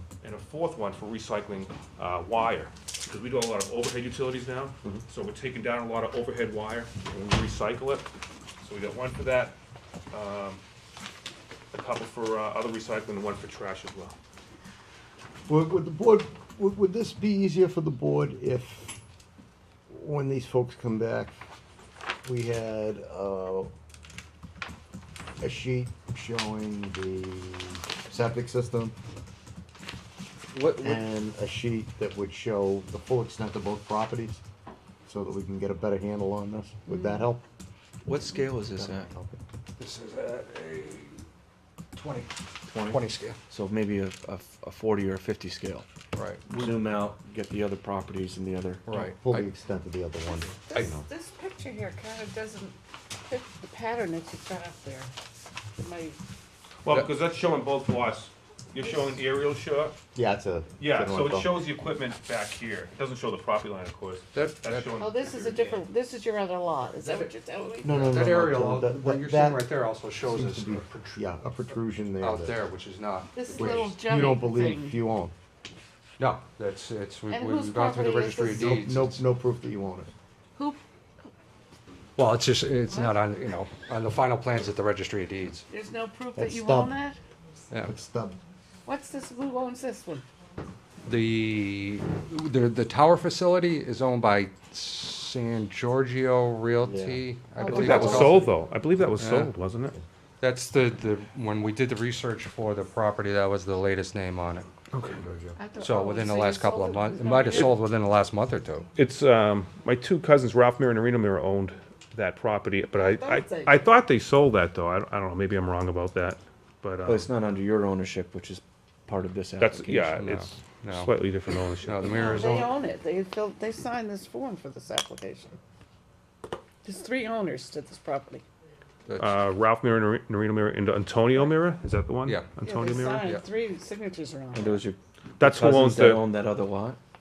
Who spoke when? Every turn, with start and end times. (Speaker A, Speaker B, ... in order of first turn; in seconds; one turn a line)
Speaker A: 0.2-8.1
Speaker A: 8.6-9.6
Speaker A: 10.1-10.6
Speaker A: 11.7-14.2
Speaker B: 15.5-19.0
Speaker B: 19.9-21.4
Speaker B: 22.2-23.7
Speaker B: 25.4-29.0
Speaker C: 30.5-31.0
Speaker B: 30.8-34.4
Speaker B: 35.1-37.5
Speaker D: 36.9-37.2
Speaker C: 38.0-39.1
Speaker B: 38.3-39.4
Speaker E: 39.8-41.2
Speaker E: 42.0-43.4
Speaker C: 42.7-45.9
Speaker E: 46.1-46.4
Speaker C: 46.5-48.9
Speaker E: 48.9-49.5
Speaker B: 48.9-51.1
Speaker D: 50.3-55.1
Speaker D: 55.8-56.2
Speaker A: 56.9-60.0
Speaker B: 60.1-61.7
Speaker A: 60.8-65.8
Speaker E: 64.3-64.9
Speaker D: 65.0-68.3
Speaker E: 67.0-67.3
Speaker B: 67.8-69.7
Speaker E: 67.9-71.2
Speaker B: 70.2-72.6
Speaker E: 72.2-73.6
Speaker D: 73.3-75.0
Speaker B: 73.6-75.3
Speaker E: 76.2-79.2
Speaker D: 77.3-78.8
Speaker B: 78.5-80.1
Speaker E: 82.2-85.7
Speaker D: 85.7-87.2
Speaker B: 86.4-87.0
Speaker B: 87.8-88.4
Speaker D: 88.8-90.3
Speaker E: 91.1-98.5
Speaker C: 96.8-97.2
Speaker D: 97.6-98.5
Speaker A: 97.7-100.0
Speaker E: 99.2-99.5
Speaker E: 100.4-104.7
Speaker A: 104.9-105.2
Speaker B: 105.2-105.5
Speaker D: 105.6-107.8
Speaker E: 105.8-108.9
Speaker A: 109.0-117.3
Speaker D: 112.9-113.8
Speaker C: 117.0-120.2
Speaker A: 119.6-122.6
Speaker E: 120.2-121.1
Speaker E: 121.8-122.7
Speaker D: 122.0-125.6
Speaker D: 126.8-128.4
Speaker A: 129.2-133.2
Speaker E: 132.2-132.5
Speaker D: 132.6-134.9
Speaker E: 133.1-133.4
Speaker C: 134.5-137.0
Speaker A: 135.4-136.2